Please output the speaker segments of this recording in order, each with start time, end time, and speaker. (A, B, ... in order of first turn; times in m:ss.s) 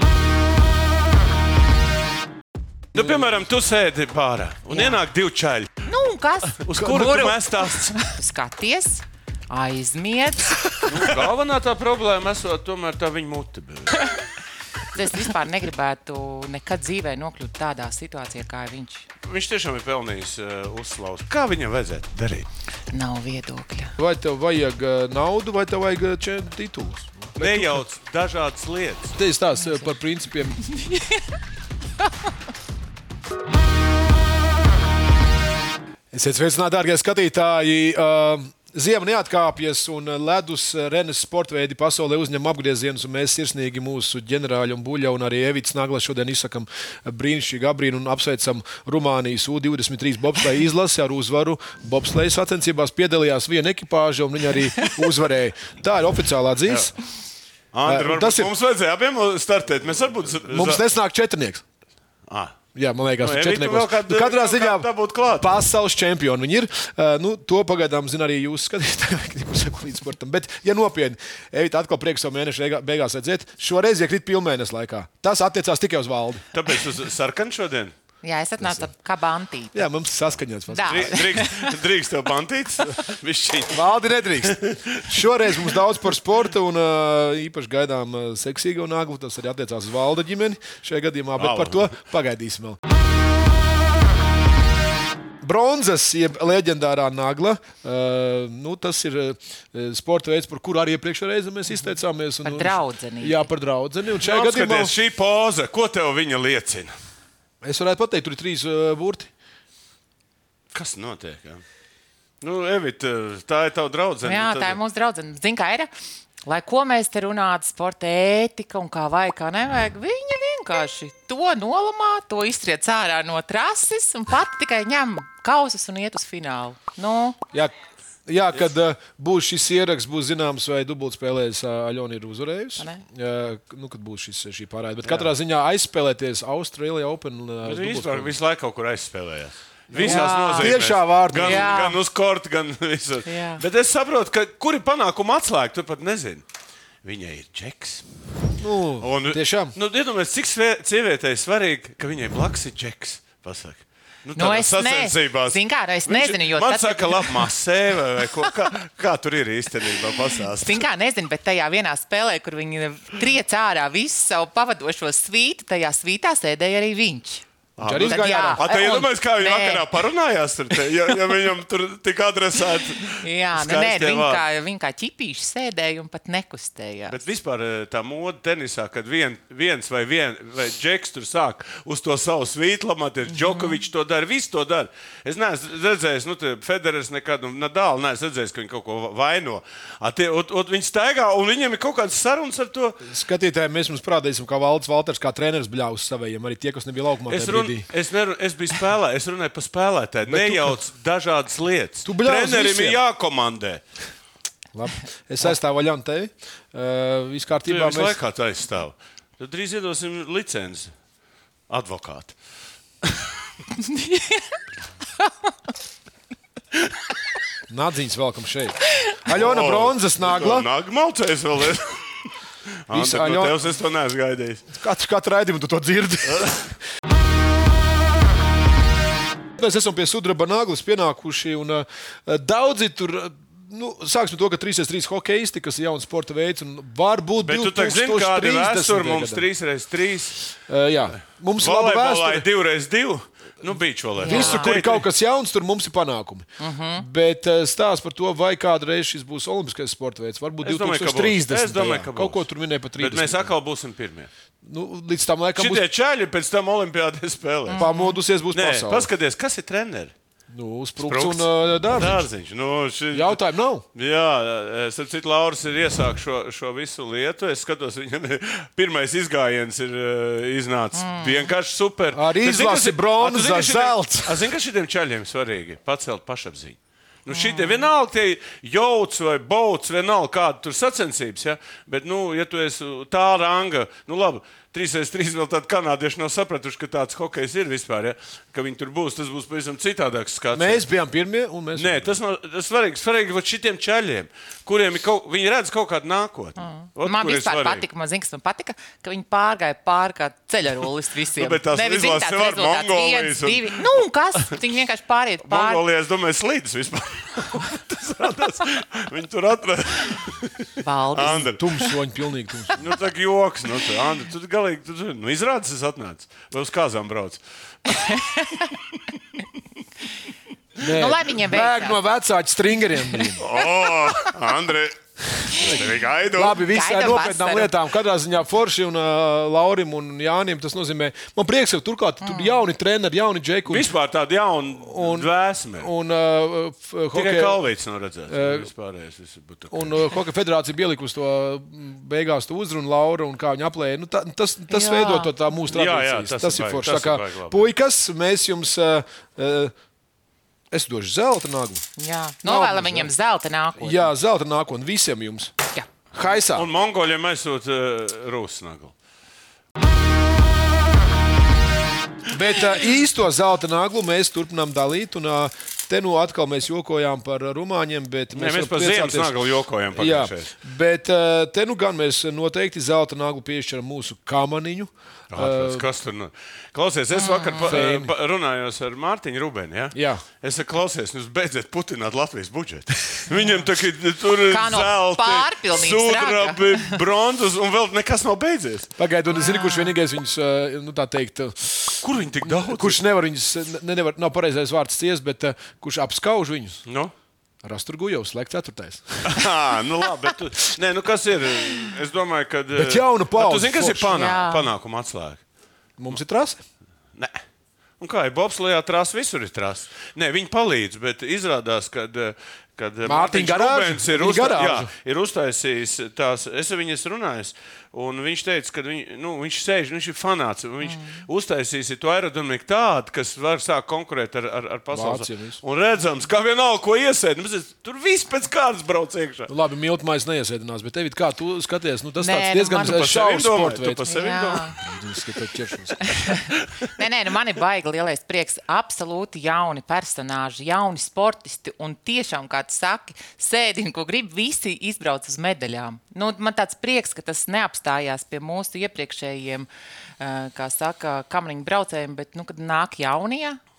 0:02.9-0:03.4 A
0:02.9-0:05.7 B
0:04.7-0:05.0 C
0:05.8-0:10.6 C
0:06.5-0:08.0 B
0:06.8-0:07.3 A
0:10.8-0:14.1 B
0:14.9-0:19.1 C
0:19.2-0:22.4 B
0:22.9-0:24.0 C
0:24.0-0:27.8 A
0:27.4-0:29.2 B
0:29.1-0:30.6 A
0:29.6-0:29.9 C
0:30.7-0:31.0 C
0:36.1-0:56.9 A
0:56.7-0:56.9 B
0:57.7-1:00.8 B
0:57.8-0:58.5 A
1:00.5-1:01.6 A
1:02.3-1:02.5 B
1:02.7-1:16.5 A
1:03.2-1:05.6 B
1:16.5-1:17.9 B
1:18.2-1:19.9 C
1:18.6-1:18.9 A
1:19.7-1:21.4 A
1:20.7-1:21.6 C
1:20.8-1:25.0 B
1:23.7-1:32.8 A
1:31.4-1:31.9 B
1:35.4-1:44.9 A
1:42.4-1:43.4 C
1:44.2-1:46.9 B
1:47.6-1:49.3 A
1:50.7-1:51.6 B
1:52.4-1:54.8 B
1:54.2-1:55.9 C
1:56.4-2:07.4 C
2:08.2-2:18.3 A
2:12.8-2:13.0 C
2:15.0-2:15.3 B
2:17.6-2:26.4 B
2:19.9-2:21.8 A
2:20.0-2:20.8 C
2:21.4-2:22.0 C
2:23.2-2:23.6 C
2:27.0-2:28.1 B
2:28.6-2:29.8 A
2:29.0-2:40.8 B
2:34.4-2:37.5 C
2:40.6-2:49.9 C
2:47.8-2:54.4 B
2:47.8-2:48.6 A
2:53.2-2:57.2 C
2:57.1-3:13.0 B
3:03.3-3:03.8 C
3:13.0-3:17.8 A
3:17.3-3:23.8 B
3:20.3-3:20.8 A
3:22.0-3:23.0 A
3:24.7-3:28.2 A
3:27.6-3:30.9 B
3:31.7-3:32.4 B
3:33.0-3:33.3 B
3:33.8-3:34.4 C
3:37.7-3:40.7 A
3:39.3-3:42.3 B
3:42.9-3:44.7 B
3:42.9-3:43.6 A
3:44.7-3:46.7 A
3:46.3-3:46.6 B
3:49.6-3:59.5 A
3:57.4-4:00.6 B
4:00.7-4:02.4 A
4:01.6-4:05.1 B
4:04.2-4:04.7 C
4:04.2-4:13.5 A
4:06.6-4:07.0 C
4:10.6-4:14.3 B
4:14.6-4:15.8 A
4:15.6-4:17.8 B
4:17.7-4:18.2 C
4:17.8-4:19.1 A
4:18.5-4:20.1 B
4:20.5-4:22.3 A
4:21.0-4:23.4 B
4:23.1-4:23.8 A
4:23.9-4:50.8 B
4:30.9-4:31.5 C
4:32.1-4:34.5 A
4:37.3-4:37.9 C
4:50.5-4:52.2 A
4:51.8-4:57.8 B
4:56.6-5:05.8 C
5:01.4-5:04.0 B
5:05.4-5:11.8 B
5:10.8-5:11.5 C
5:11.6-5:12.8 A
5:12.7-5:18.8 B
5:18.0-5:18.7 C
5:20.8-5:23.5 A
5:20.8-5:22.0 C
5:23.4-5:26.6 B
5:25.3-5:33.9 A
5:26.6-5:27.7 C
5:32.2-5:32.6 C
5:33.7-5:35.9 B
5:34.8-5:37.6 A
5:37.1-5:40.1 B
5:38.3-5:38.7 A
5:39.7-5:49.7 A
5:44.7-5:45.3 C
5:45.7-5:47.6 B
5:50.7-5:51.9 A
5:52.0-5:54.1 C
5:52.4-5:53.1 A
5:53.8-5:55.5 A
5:56.1-5:56.7 A
5:56.4-5:58.9 B
6:02.3-6:09.3 A
6:08.3-6:10.5 B
6:09.9-6:15.8 A
6:15.3-6:28.9 B
6:17.1-6:17.7 C
6:17.6-6:18.1 A
6:19.9-6:20.2 A
6:23.3-6:23.7 C
6:24.5-6:27.0 C
6:29.0-6:36.8 A
6:29.3-6:29.9 C
6:32.0-6:33.0 B
6:36.8-6:37.1 B
6:37.6-6:39.5 A
6:39.3-6:45.4 B
6:42.7-6:44.1 A
6:44.1-6:44.7 C
6:46.0-6:46.6 A
6:47.1-6:47.4 B
6:48.0-7:09.5 B
6:53.0-6:54.9 A
7:00.8-7:01.2 C
7:04.9-7:05.6 A
7:09.5-7:16.3 A
7:12.2-7:13.2 C
7:12.8-7:14.8 B
7:14.0-7:14.8 C
7:17.0-7:29.7 C
7:30.2-7:33.6 C